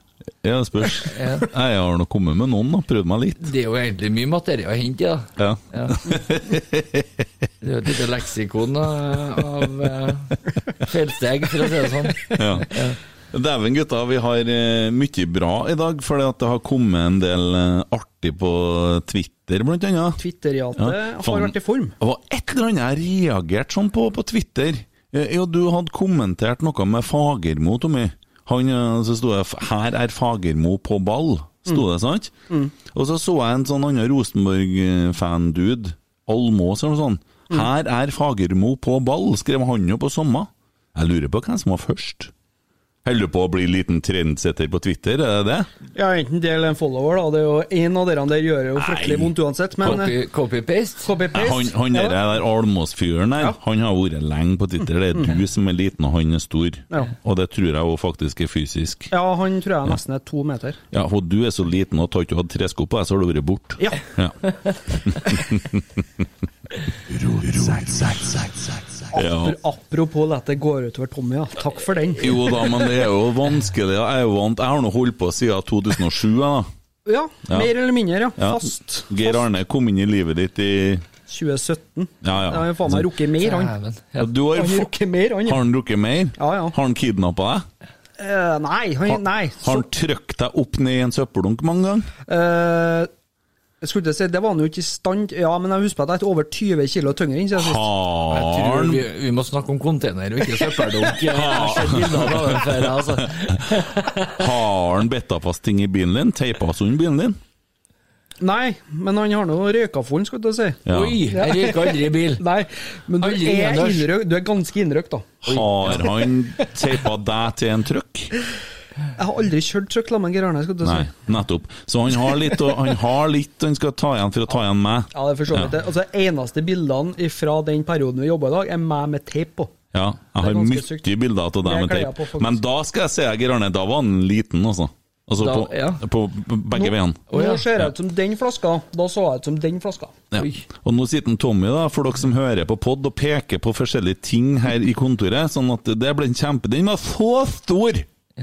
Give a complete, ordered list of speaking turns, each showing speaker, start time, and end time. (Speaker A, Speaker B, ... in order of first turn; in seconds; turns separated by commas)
Speaker A: 0.4-3.5, Speaker B: 1.1-1.5, Speaker B: 3.4-6.2, Speaker A: 5.4-7.2, Speaker B: 7.6-13.0, Speaker A: 12.3-12.7, Speaker A: 13.3-20.2, Speaker C: 20.2-21.9, Speaker A: 20.8-32.3, Speaker A: 32.9-42.3, Speaker A: 43.0-45.7, Speaker C: 45.9-50.1, Speaker A: 48.8-49.3, Speaker B: 49.8-51.1, Speaker C: 51.0-52.2, Speaker A: 51.3-59.1, Speaker C: 59.1-60.8, Speaker A: 60.9-64.3, Speaker A: 64.9-65.8, Speaker A: 67.2-68.2, Speaker C: 69.1-72.7, Speaker A: 69.1-69.6, Speaker A: 72.2-76.7, Speaker C: 77.0-79.4, Speaker A: 78.4-81.0, Speaker C: 81.3-83.7, Speaker A: 82.2-83.1, Speaker B: 83.4-84.3, Speaker A: 84.2-84.9, Speaker C: 84.5-85.6, Speaker A: 85.4-87.7, Speaker C: 86.4-86.7, Speaker C: 88.2-89.8, Speaker A: 89.1-92.1, Speaker C: 92.2-93.1, Speaker C: 93.8-97.9, Speaker A: 97.5-99.0, Speaker B: 98.3-104.4, Speaker A: 101.1-103.2, Speaker A: 104.3-107.4, Speaker C: 108.4-115.3, Speaker A: 110.8-111.2, Speaker B: 110.9-112.4, Speaker B: 113.2-114.1, Speaker A: 115.4-118.3, Speaker B: 115.5-116.0, Speaker C: 119.2-121.2, Speaker A: 120.8-125.7, Speaker C: 125.1-129.7, Speaker A: 129.9-137.9, Speaker C: 130.4-131.1, Speaker C: 131.6-132.6, Speaker B: 135.4-136.0, Speaker C: 136.7-140.1, Speaker B: 137.3-137.6, Speaker A: 140.3-148.1, Speaker B: 140.4-140.6